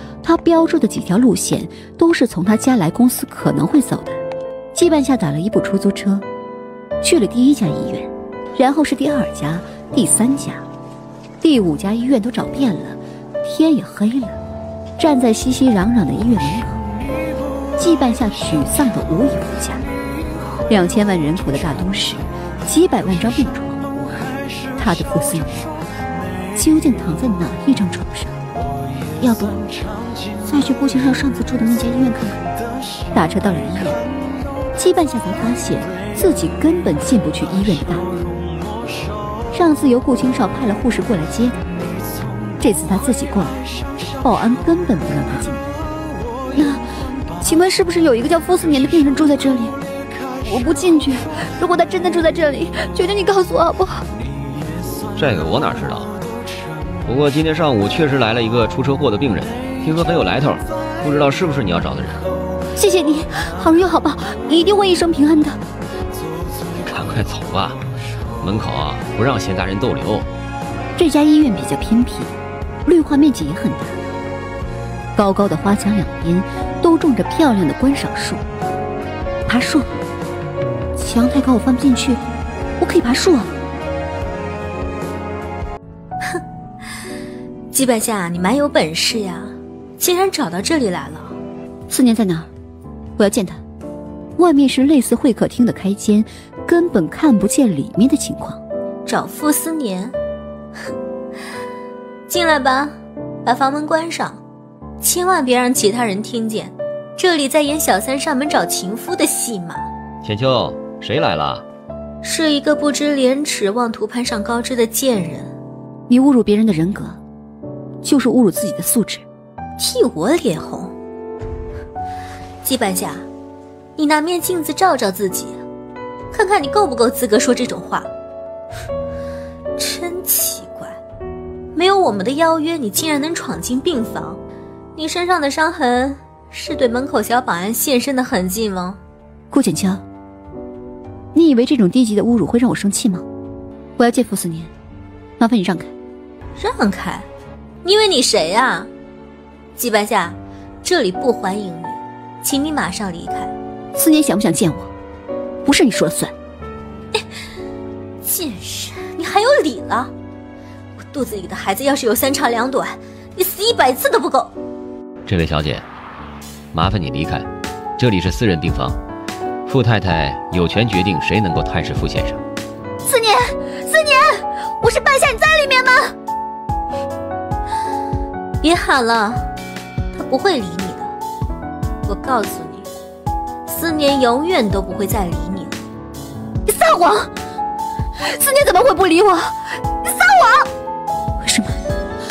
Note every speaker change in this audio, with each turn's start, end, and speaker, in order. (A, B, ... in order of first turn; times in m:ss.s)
0:00.2-0:04.2 A
0:04.7-0:06.3 A
0:07.0-0:10.6 A
0:11.4-0:14.4 A
0:15.0-0:16.8 A
0:17.8-0:19.8 A
0:20.7-0:23.8 A
0:24.8-0:25.6 A
0:26.6-0:28.4 A
0:29.2-0:29.6 A
0:30.4-0:32.5 A
0:33.1-0:34.0 A
0:34.8-0:38.2 A
0:39.5-0:41.7 A
0:42.6-0:43.6 A
0:44.2-0:45.7 A
0:46.5-0:46.9 A
0:47.4-0:49.8 A
0:50.4-0:54.1 A
0:55.2-0:56.1 B
0:57.0-1:02.3 B
1:02.8-1:05.6 A
1:06.8-1:07.8 B
1:08.4-1:10.3 B
1:11.0-1:12.4 A
1:12.9-1:14.0 A
1:15.2-1:18.4 A
1:19.5-1:19.9 A
1:21.0-1:22.2 A
1:22.8-1:23.5 A
1:27.7-1:31.4 C
1:31.9-1:32.5 A
1:33.2-1:33.6 A
1:34.4-1:38.6 A
1:39.1-1:40.2 C
1:42.3-1:42.9 C
1:43.4-1:44.4 C
1:45.0-1:49.9 C
1:50.2-1:51.6 B
1:52.2-1:55.5 C
1:56.1-1:57.2 A
1:58.0-1:59.2 A
1:59.8-2:00.9 C
2:02.6-2:03.3 C
2:04.0-2:05.6 C
2:06.3-2:08.1 C
2:09.8-2:11.0 C
2:11.8-2:14.4 C
2:15.0-2:19.0 C
2:19.5-2:20.0 A
2:21.3-2:23.2 A
2:24.0-2:24.7 A
2:25.4-2:25.9 A
2:26.6-2:27.3 C
2:27.8-2:28.9 C
2:29.8-2:33.5 C
2:34.0-2:34.9 A
2:35.6-2:36.3 A
2:38.2-2:40.1 C
2:41.0-2:44.5 C
2:45.3-2:45.9 B
2:46.7-2:49.0 B
2:49.7-2:52.4 B
2:53.1-2:56.1 A
2:58.6-2:59.5 C
3:00.1-3:01.1 C
3:02.1-3:02.9 C
3:03.7-3:05.8 C
3:06.7-3:07.3 A
3:08.2-3:10.7 A
3:11.4-3:11.8 A